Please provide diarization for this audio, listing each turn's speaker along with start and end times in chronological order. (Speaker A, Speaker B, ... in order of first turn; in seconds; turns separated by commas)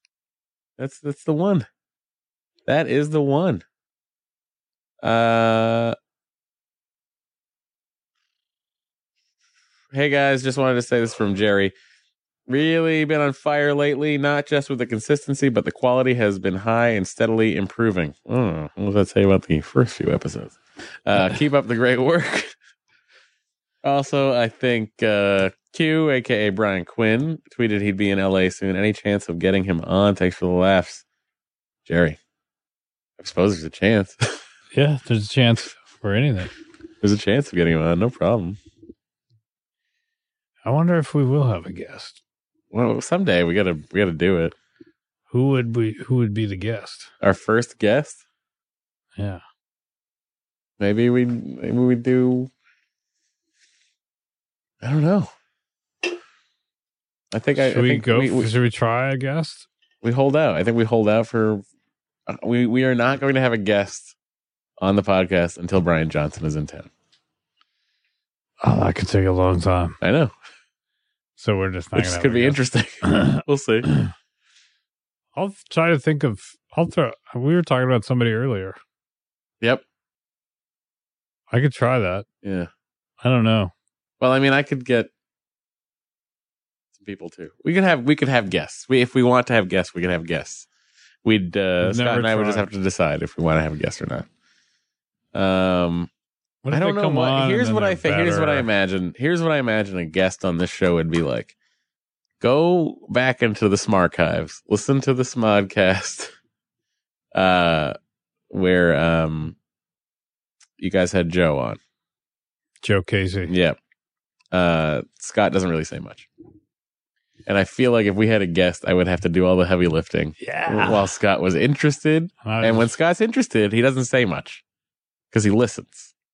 Speaker A: 0.8-1.7, Speaker A: 2.7-3.6, Speaker A: 5.0-6.0, Speaker A: 9.9-11.8, Speaker A: 12.5-22.5, Speaker A: 23.8-31.0, Speaker A: 31.9-32.2, Speaker A: 33.2-34.4, Speaker B: 34.7-36.5, Speaker A: 37.0-38.6, Speaker B: 40.6-42.2, Speaker A: 42.7-44.5, Speaker B: 45.3-47.1, Speaker A: 47.2-48.2, Speaker A: 50.8-52.5, Speaker A: 54.8-55.3, Speaker A: 57.3-58.5, Speaker B: 57.6-59.7, Speaker A: 60.0-61.6, Speaker A: 62.3-64.2, Speaker A: 64.8-66.9, Speaker B: 68.6-70.0, Speaker A: 70.0-70.3, Speaker B: 71.4-74.1, Speaker A: 72.0-73.9, Speaker B: 75.4-78.8, Speaker B: 81.5-82.2, Speaker A: 82.4-82.7, Speaker B: 83.2-83.7, Speaker A: 84.2-85.1, Speaker A: 87.0-90.7, Speaker A: 91.2-94.3, Speaker B: 91.8-92.7, Speaker A: 95.3-96.1, Speaker B: 96.6-98.7, Speaker A: 96.7-101.5, Speaker A: 102.4-106.3, Speaker A: 107.3-108.0, Speaker A: 108.5-109.5, Speaker A: 110.8-111.8, Speaker B: 112.8-113.5, Speaker A: 113.5-113.8, Speaker A: 114.5-116.3, Speaker A: 117.5-124.6, Speaker B: 120.4-121.1, Speaker B: 122.4-122.9, Speaker A: 125.3-126.1